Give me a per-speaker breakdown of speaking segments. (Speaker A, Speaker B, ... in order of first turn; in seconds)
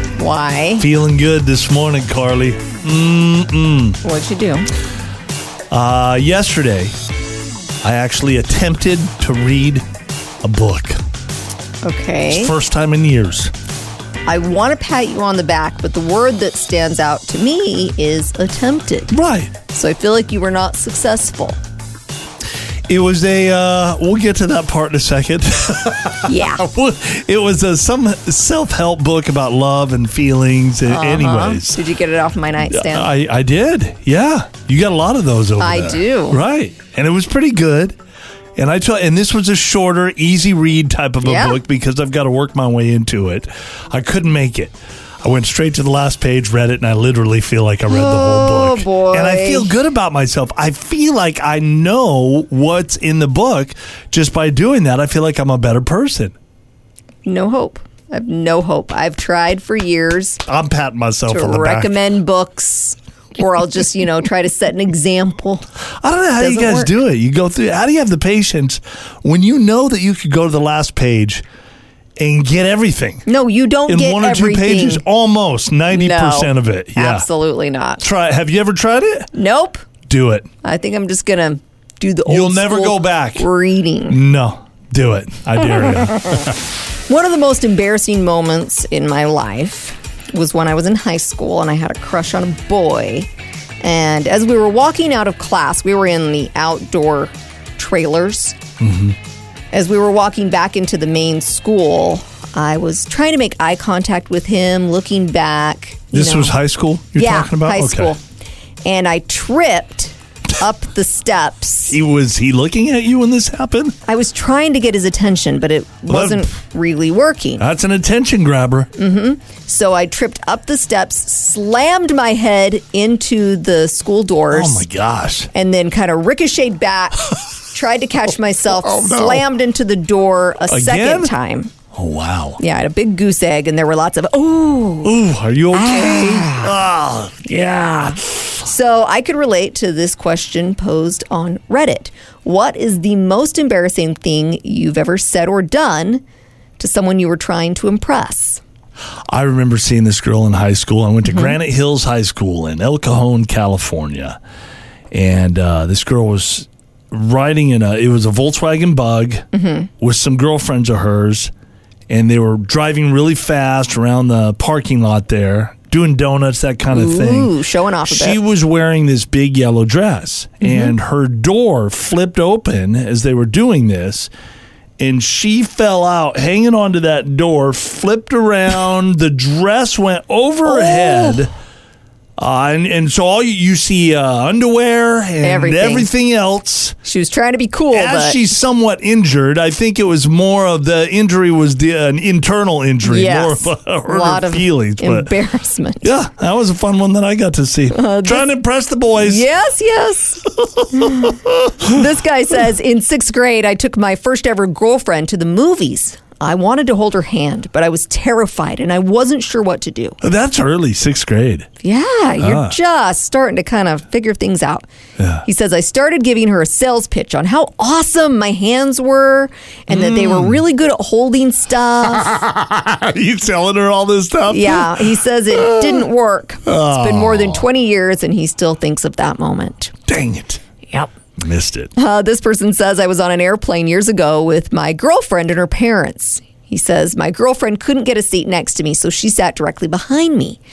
Speaker A: 0.2-0.8, 4.0-4.7, 11.8-12.5, 14.3-19.1, 19.7-21.6, 26.3-26.6, 30.9-33.1, 35.6-36.4, 41.2-41.6, 47.9-49.7, 57.2-60.4, 61.3-65.7, 66.4-66.9, 73.3-75.0, 75.9-78.0, 79.3-79.8, 80.6-84.2, 85.8-86.4, 87.1-93.3, 93.8-98.6, 99.7-106.6, 107.1-108.2, 108.8-112.0, 114.1-117.6, 119.0-124.8, 125.5-131.7, 132.6-135.2, 135.7-136.7, 137.5-146.2, 146.8-148.6, 151.2-151.6, 159.5-159.9, 166.9-168.4, 170.6-170.9, 180.7-181.4, 185.4-186.1, 187.0-188.4, 193.0-196.1, 197.9-198.5, 199.2-210.2, 211.8-214.8, 215.4-222.4, 224.5-229.9, 232.0-240.6
Speaker B: 0.8-4.0, 5.7-7.0, 7.8-9.8, 10.4-11.0, 12.3-13.5, 19.1-19.5, 22.9-31.8, 32.6-38.0, 38.5-56.3, 60.5-62.0, 66.0-71.4, 72.2-73.3, 73.9-77.3, 78.0-79.3, 80.1-80.5, 82.2-83.5, 84.1-86.6, 98.8-99.2, 106.1-108.1, 111.9-114.0, 116.1-116.5, 117.6-118.9, 124.5-125.5, 128.7-129.4, 130.7-131.3, 131.9-132.6, 135.0-138.5, 149.3-154.4, 155.1-159.4, 160.0-161.5, 162.1-167.5, 168.0-174.3, 175.0-181.5, 182.4-187.0, 187.9-195.3, 196.0-199.4, 200.8-201.9, 210.2-211.7, 212.4-212.8, 215.2-215.4, 219.9-220.6, 222.0-226.0, 226.7-227.7, 230.1-230.6, 231.4-231.9